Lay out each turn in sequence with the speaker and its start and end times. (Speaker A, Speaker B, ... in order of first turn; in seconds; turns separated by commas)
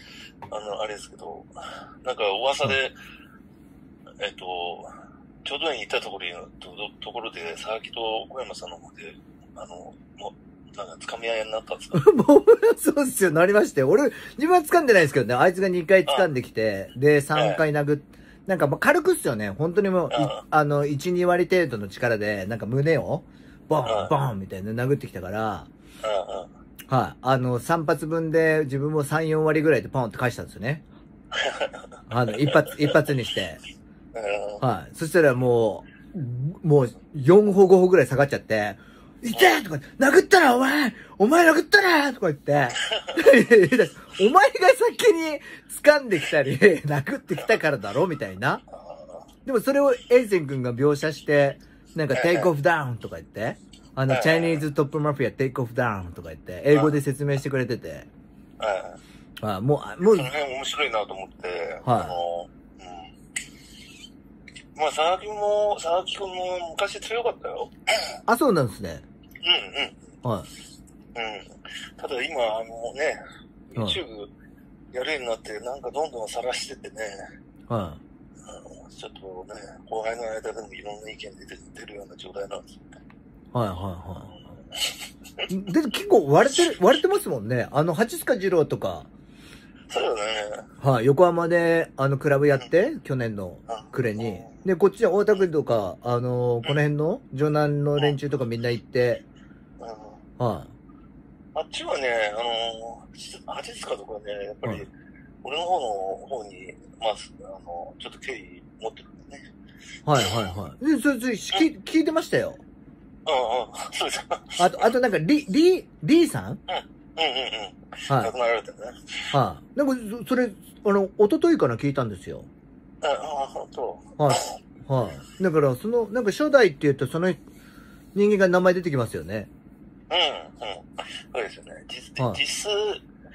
Speaker A: 0.5-1.5, Speaker A: 2.0-2.9, Speaker A: 4.2-4.9, Speaker A: 5.4-12.0, Speaker B: 11.9-25.7, Speaker A: 17.3-17.6, Speaker A: 20.1-20.4, Speaker A: 23.8-24.1, Speaker A: 26.0-26.5, Speaker B: 26.9-30.8, Speaker A: 31.4-31.8, Speaker B: 32.1-33.6, Speaker A: 34.1-34.6, Speaker B: 34.6-48.6, Speaker A: 48.8-49.2, Speaker B: 49.5-58.1, Speaker A: 52.1-52.5, Speaker A: 54.1-54.6, Speaker A: 56.7-57.0, Speaker A: 58.6-59.0, Speaker B: 59.4-60.3, Speaker A: 60.1-63.1, Speaker B: 61.8-62.1, Speaker A: 64.7-67.7, Speaker B: 68.3-69.0, Speaker A: 69.4-70.0, Speaker B: 70.2-70.5, Speaker A: 71.1-74.3, Speaker A: 74.9-77.2, Speaker B: 77.7-78.0, Speaker A: 78.5-82.8, Speaker B: 83.5-84.3, Speaker B: 85.5-89.1, Speaker A: 89.9-90.7, Speaker B: 90.8-99.2, Speaker A: 93.7-94.6, Speaker A: 99.8-100.2, Speaker B: 100.4-100.7, Speaker A: 101.5-104.9, Speaker A: 105.4-109.4, Speaker B: 110.0-112.6, Speaker A: 110.1-110.5, Speaker A: 113.2-114.9, Speaker B: 114.6-116.6, Speaker A: 116.7-119.3, Speaker B: 119.3-122.5, Speaker A: 123.0-124.5, Speaker B: 124.2-127.4, Speaker B: 128.1-129.5, Speaker A: 130.1-133.0